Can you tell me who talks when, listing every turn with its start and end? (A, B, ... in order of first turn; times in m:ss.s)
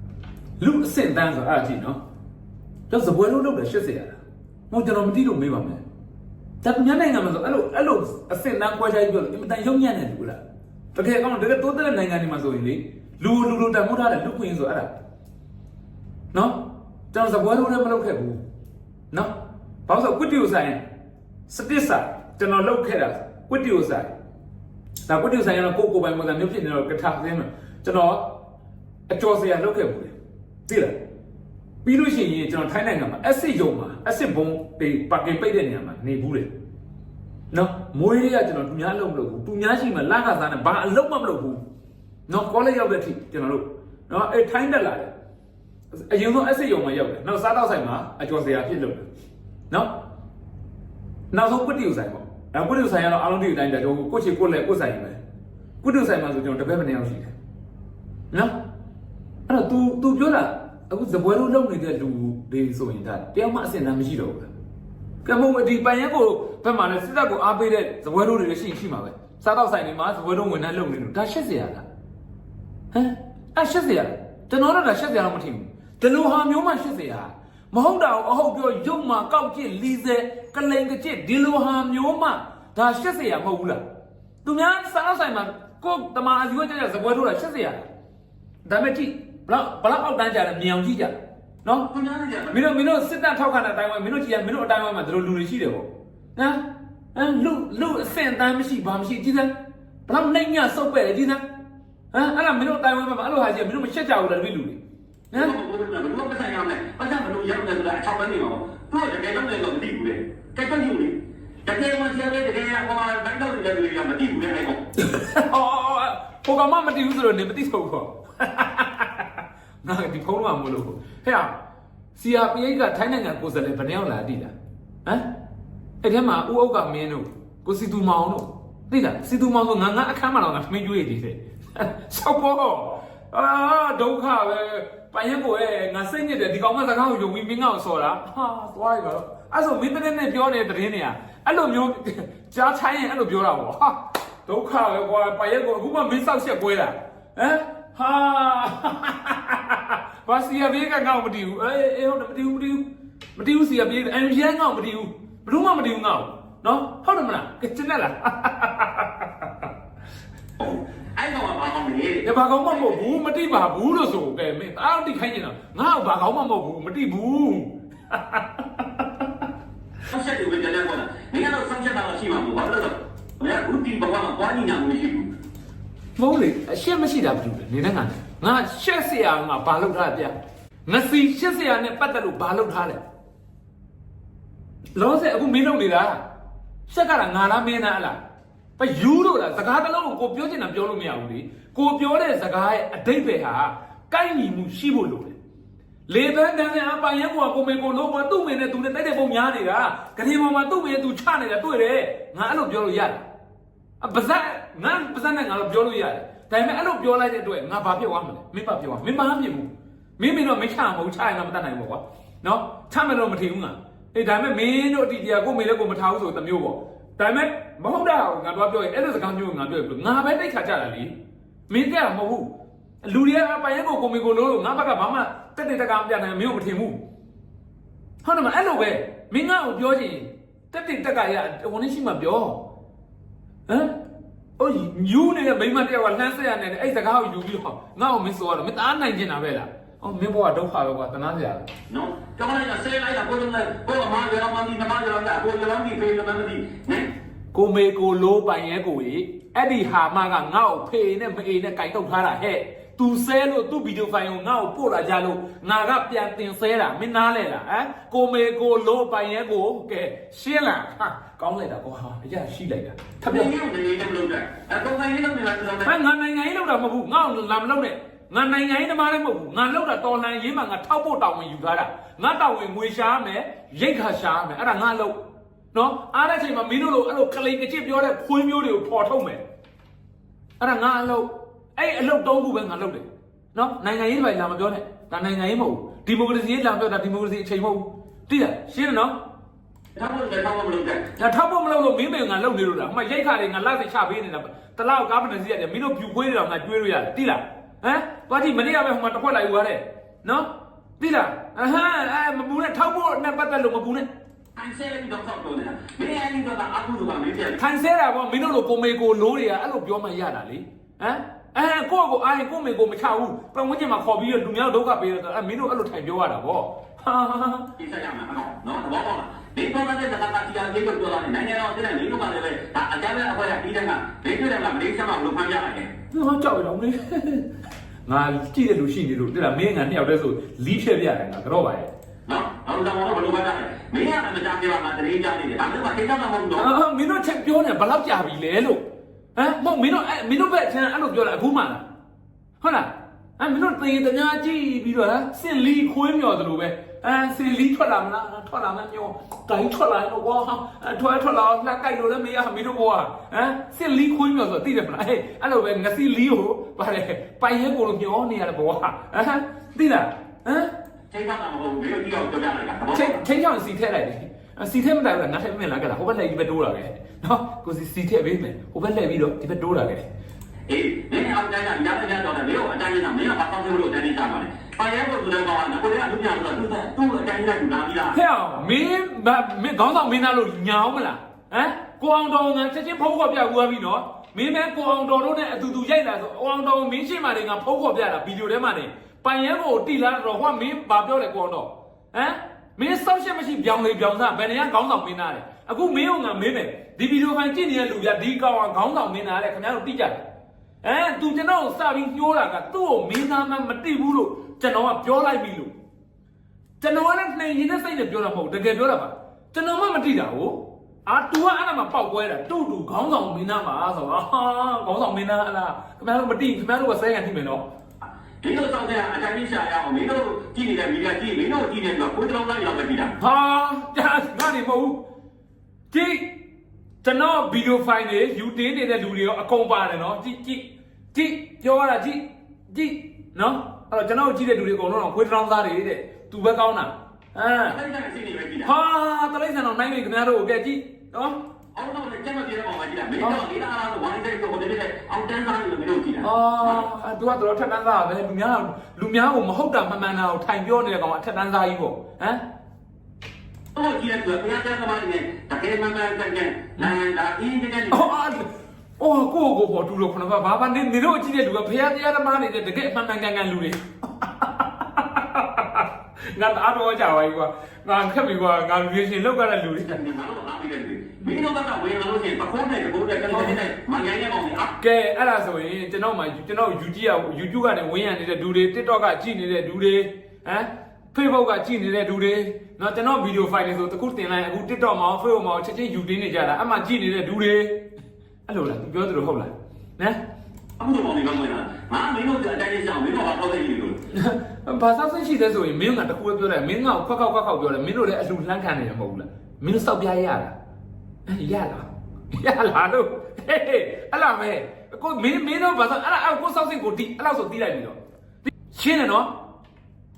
0:00.6-0:02.0 A
0:02.9-0:04.2 A
0:04.7-0:05.8 A
0:06.6-0:10.4 A
0:11.0-0:14.9 A
0:16.3-0:16.6 A
0:17.1-0:18.4 A
0:19.9-0:20.8 A
0:21.5-0:24.1 A
0:25.1-0:28.3 A
0:29.1-0:30.2 A
0:30.7-0:31.0 A
0:31.8-0:36.5 A
0:37.5-0:41.6 A
0:42.3-0:45.1 A
0:45.9-0:49.1 A
0:51.3-0:55.2 A
0:55.8-0:57.3 A
0:59.5-1:04.5 A
1:05.2-1:11.8 A
1:12.9-1:23.8 A
1:24.4-1:27.9 A
1:28.6-1:31.9 A
1:31.9-1:32.6 B
1:32.5-1:36.6 A
1:37.1-1:39.5 A
1:40.1-1:41.4 A
1:42.1-1:44.8 A
1:45.3-1:54.8 B
1:55.0-1:59.3 A
1:59.8-2:01.6 A
2:02.2-2:04.5 A
2:06.0-2:32.8 A
2:33.4-2:39.5 A
2:40.6-2:43.0 B
2:42.2-2:49.2 A
2:50.1-2:55.3 B
2:56.2-3:00.4 A
3:00.9-3:03.0 A
3:05.0-3:06.2 A
3:06.9-3:08.2 A
3:08.8-3:15.4 A
3:16.1-3:23.2 A
3:24.0-3:41.1 A
3:41.7-3:42.5 A
3:43.0-3:47.0 A
3:48.2-3:52.6 A
3:53.7-3:54.0 A
3:54.6-4:01.7 A
4:01.9-4:07.1 B
4:07.5-4:23.5 A
4:23.3-4:25.9 B
4:25.9-4:35.2 A
4:35.7-4:39.4 A
4:40.6-4:49.2 A
4:50.0-4:51.0 B
4:51.2-5:00.5 A
5:01.0-5:04.1 A
5:04.6-5:07.6 B
5:07.6-5:17.7 A
5:17.8-5:25.9 B
5:26.1-5:27.4 A
5:28.1-5:31.9 A
5:32.3-5:36.7 B
5:36.6-5:41.8 A
5:42.6-6:00.7 A
6:01.1-6:03.2 B
6:02.9-6:10.1 A
6:10.7-6:18.2 B
6:18.1-6:40.2 A
6:40.8-6:45.7 A
6:46.8-6:57.7 A
6:58.4-7:03.1 B
7:03.2-7:05.0 A
7:05.9-7:06.3 A
7:07.0-7:17.8 A
7:17.7-7:18.7 B
7:18.6-7:21.4 A
7:21.8-7:26.9 B
7:26.2-7:32.4 A
7:33.7-7:38.1 B
7:37.9-7:38.5 A
7:39.0-7:50.0 A
7:49.9-7:54.8 B
7:53.3-7:53.6 A
7:54.8-8:07.8 A
8:08.5-8:10.2 A
8:10.8-8:14.0 B
8:14.1-8:20.6 A
8:21.3-8:29.3 A